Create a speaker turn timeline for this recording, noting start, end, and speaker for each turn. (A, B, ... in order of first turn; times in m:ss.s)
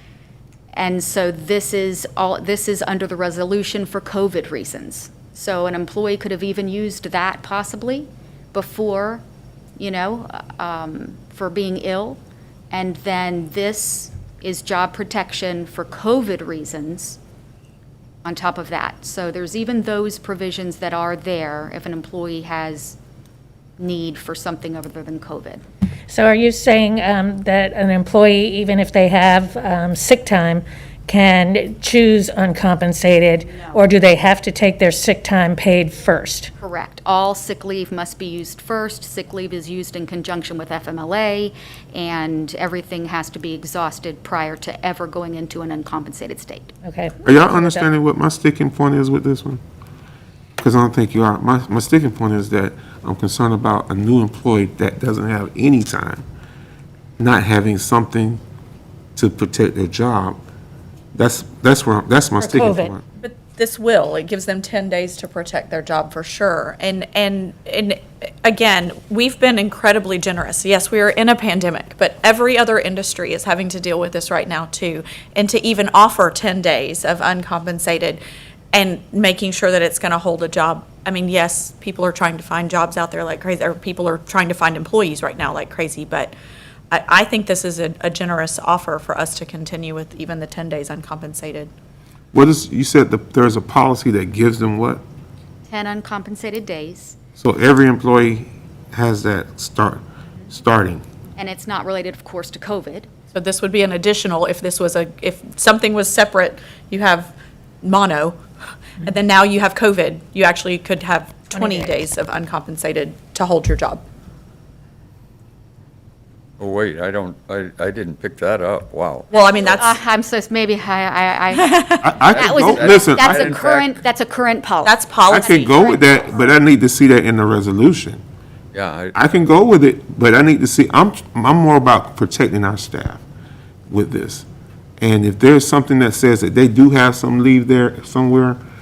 0:00.7-0:09.2 A
0:09.8-0:12.2 A
0:12.7-0:17.2 A
0:18.2-0:23.0 A
0:23.8-0:25.6 A
0:26.1-0:36.5 B
0:36.6-0:46.7 A
0:46.8-0:47.8 B
0:47.2-0:49.6 C
0:50.6-0:56.2 C
0:57.2-0:58.4 C
0:59.2-1:00.4 C
1:01.1-1:03.0 C
1:02.4-1:02.9 B
1:03.2-1:18.2 D
1:18.7-1:26.3 D
1:26.9-1:31.7 D
1:32.3-1:35.0 C
1:35.7-1:37.2 A
1:37.4-1:41.0 C
1:41.4-1:43.1 A
1:43.3-1:48.4 D
1:49.0-1:54.0 D
1:51.6-1:52.0 B
1:56.6-1:59.7 E
1:59.3-2:00.0 D
1:59.3-2:06.3 A
2:01.5-2:02.2 D
2:02.0-2:03.4 C
2:02.2-2:03.9 E
2:04.8-2:05.9 D
2:05.3-2:08.2 C
2:08.7-2:09.1 E
2:09.1-2:13.2 C
2:13.9-2:14.4 C
2:15.0-2:18.6 C